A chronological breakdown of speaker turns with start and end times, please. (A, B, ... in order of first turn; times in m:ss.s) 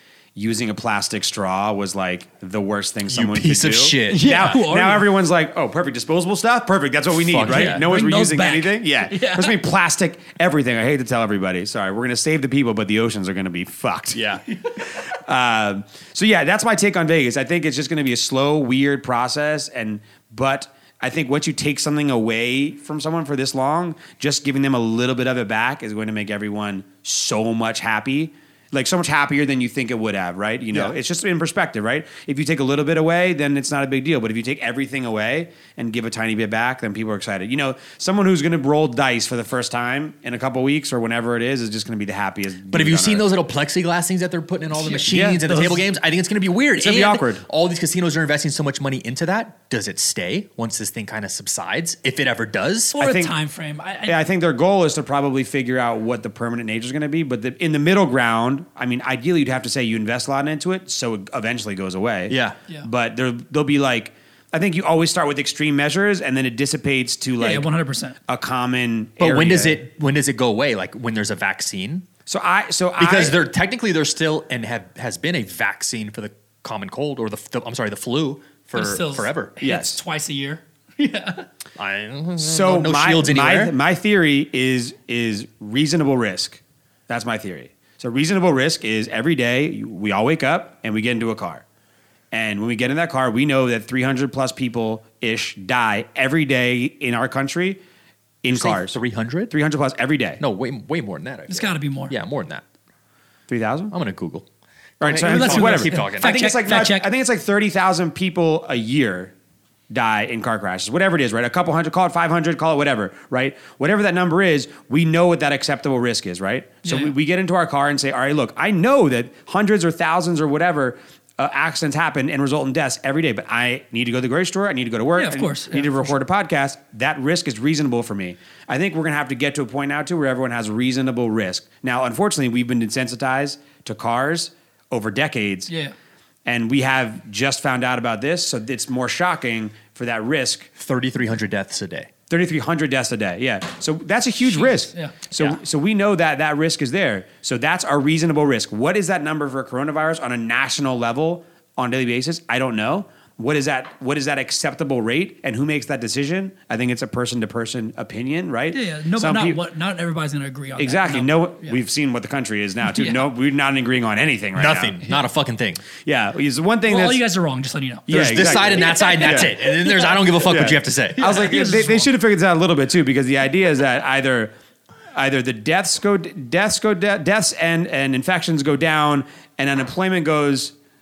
0:00.3-0:43.3 A
0:03.1-0:04.5 B
0:04.1-0:05.1 C
0:07.2-0:07.9 B
0:07.5-0:09.6 C
0:14.1-0:14.4 B
0:42.7-0:53.0 B
0:44.7-0:45.8 C
0:45.1-0:45.4 A
0:46.8-0:47.4 A
0:52.9-0:54.2 C
0:53.0-0:53.3 A
0:54.0-1:07.7 A
1:02.3-1:02.6 B
1:07.4-1:08.2 C
1:08.3-1:09.8 A
1:09.2-1:12.0 B
1:12.3-1:13.4 A
1:13.0-1:19.5 B
1:18.7-1:21.5 C
1:19.6-1:20.0 A
1:21.8-1:23.7 B
1:22.4-1:31.6 A
1:32.3-1:37.8 A
1:38.4-1:39.0 A
1:38.5-1:39.5 B
1:39.5-1:40.4 A
1:40.4-1:42.6 B
1:41.5-1:42.1 C
1:43.5-1:43.9 A
1:43.9-1:44.4 B
1:45.0-1:49.3 A
1:45.0-1:46.5 B
1:45.2-1:47.1 C
1:49.9-2:15.7 A
1:56.8-1:57.1 C
2:05.2-2:06.1 C
2:15.7-2:15.9 C
2:16.4-2:20.7 A
2:20.8-2:22.1 B
2:22.3-2:39.6 A
2:24.6-2:25.2 C
2:38.7-2:41.8 C
2:40.8-2:45.0 A
2:42.8-2:43.2 C
2:44.6-2:45.8 B
2:46.0-2:47.2 A
2:46.9-2:50.5 C
2:48.1-2:49.5 A
2:48.1-2:51.5 B
2:50.5-2:54.5 A
2:51.1-2:52.1 C
2:55.1-3:00.7 A